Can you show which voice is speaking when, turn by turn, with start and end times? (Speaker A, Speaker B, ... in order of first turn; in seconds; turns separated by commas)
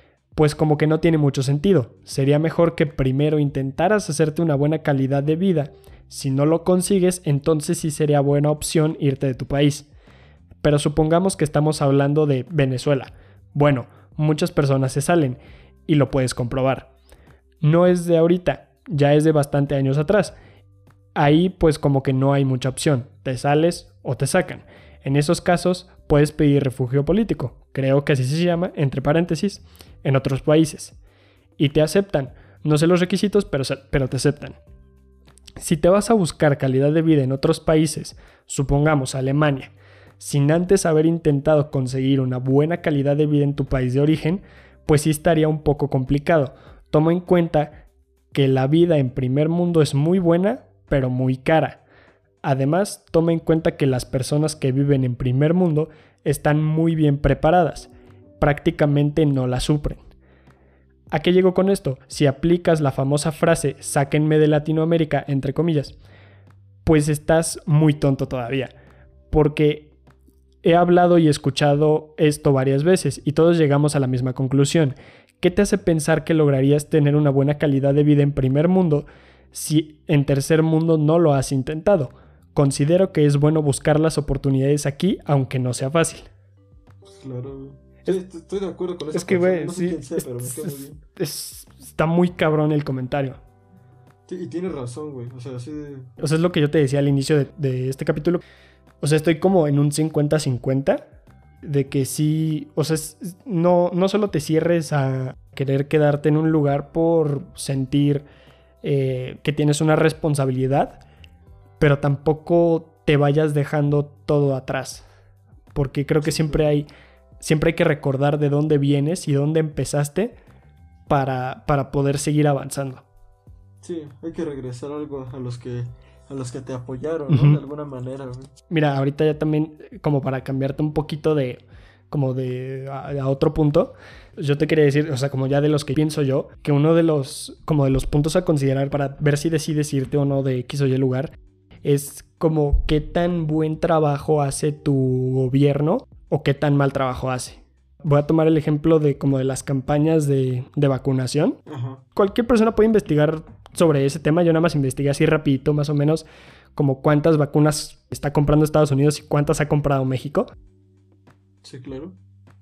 Speaker A: 0.3-9.9, Speaker A: 10.6-16.9, Speaker A: 17.6-20.3, Speaker A: 21.1-30.9, Speaker A: 31.6-34.6, Speaker A: 35.6-51.8, Speaker A: 52.4-60.0, Speaker A: 61.1-66.0, Speaker A: 66.8-68.7, Speaker A: 69.3-69.9, Speaker A: 70.6-86.3, Speaker B: 87.0-91.0, Speaker A: 89.1-93.4, Speaker B: 94.3-96.1, Speaker A: 96.2-98.4, Speaker A: 99.0-101.0, Speaker A: 101.6-108.2, Speaker A: 108.8-111.0, Speaker A: 111.8-115.0, Speaker A: 115.7-116.9, Speaker B: 116.2-116.7, Speaker A: 117.4-120.3, Speaker A: 121.1-123.0, Speaker B: 123.8-128.5, Speaker A: 127.3-127.6, Speaker A: 128.7-151.6, Speaker B: 151.7-152.0, Speaker A: 152.1-160.5, Speaker B: 161.6-162.2